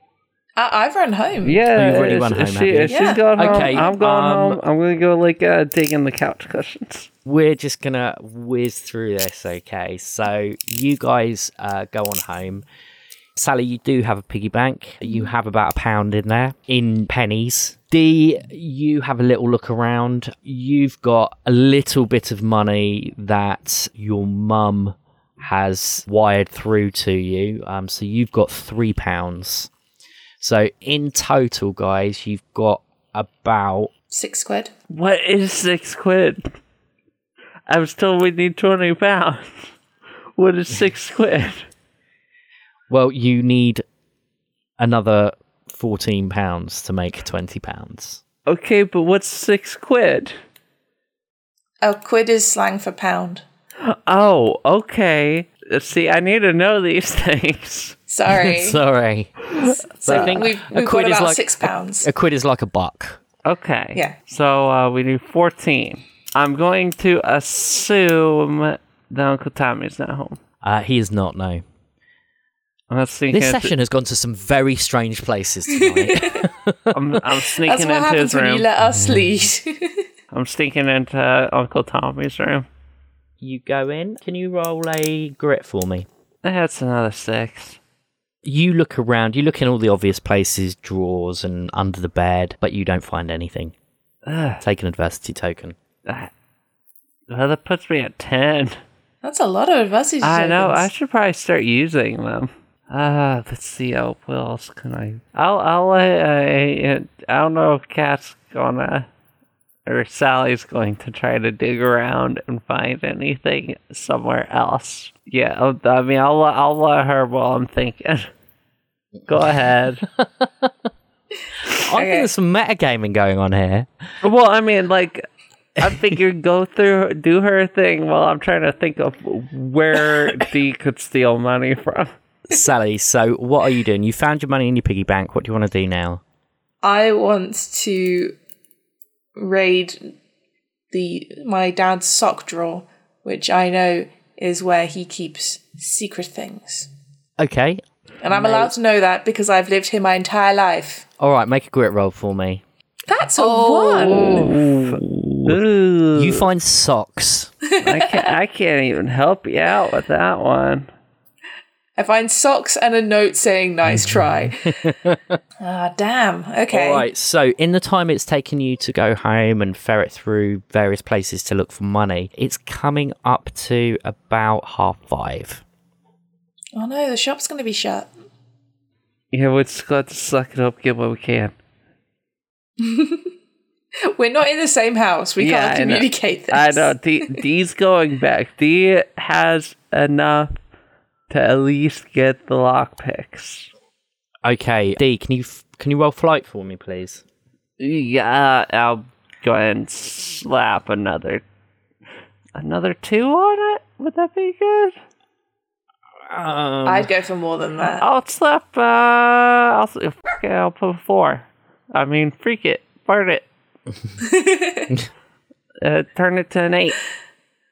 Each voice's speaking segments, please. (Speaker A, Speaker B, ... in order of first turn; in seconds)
Speaker A: 0.6-1.7, 2.9-4.0, 34.1-34.7, 51.8-53.4, 58.1-58.8, 59.5-62.1, 75.8-76.4, 77.7-80.0, 99.2-100.9, 121.9-122.3, 136.8-138.4, 139.4-140.1, 140.9-146.9, 148.2-151.1, 153.1-154.5, 157.7-158.3, 162.0-164.8, 165.6-167.1, 176.8-178.1, 182.8-183.3, 184.1-186.9, 206.9-208.1, 214.2-214.9
Speaker B: 1.4-7.1, 34.9-36.5, 37.7-39.7, 40.4-41.7, 48.5-50.4, 53.8-58.0, 63.5-70.4, 72.9-73.7, 76.9-78.7, 80.3-82.7, 86.4-87.8, 94.3-94.6, 96.1-96.3, 97.3-98.8, 100.2-109.1, 109.9-118.3, 119.3-120.1, 124.2-125.3, 125.8-132.1, 153.4-156.5, 157.8-160.9, 179.3-181.5, 185.4-190.5, 191.3-193.7, 197.8-201.4, 202.6-205.0, 208.0-213.4, 215.8-217.0
Speaker C: 1.7-4.6, 7.3-12.7, 13.4-29.7, 30.4-33.9, 42.9-43.8, 44.8-48.2, 58.3-59.4, 60.0-63.2, 70.6-71.6, 73.3-77.0, 78.8-79.4, 83.4-86.1, 88.4-93.7, 94.6-95.8, 120.0-120.7, 121.8-123.9, 132.5-136.2, 147.4-147.8, 151.2-152.6, 153.7-155.6, 156.1-157.5, 163.9-165.4, 166.7-175.6, 194.4-197.2, 206.3-207.1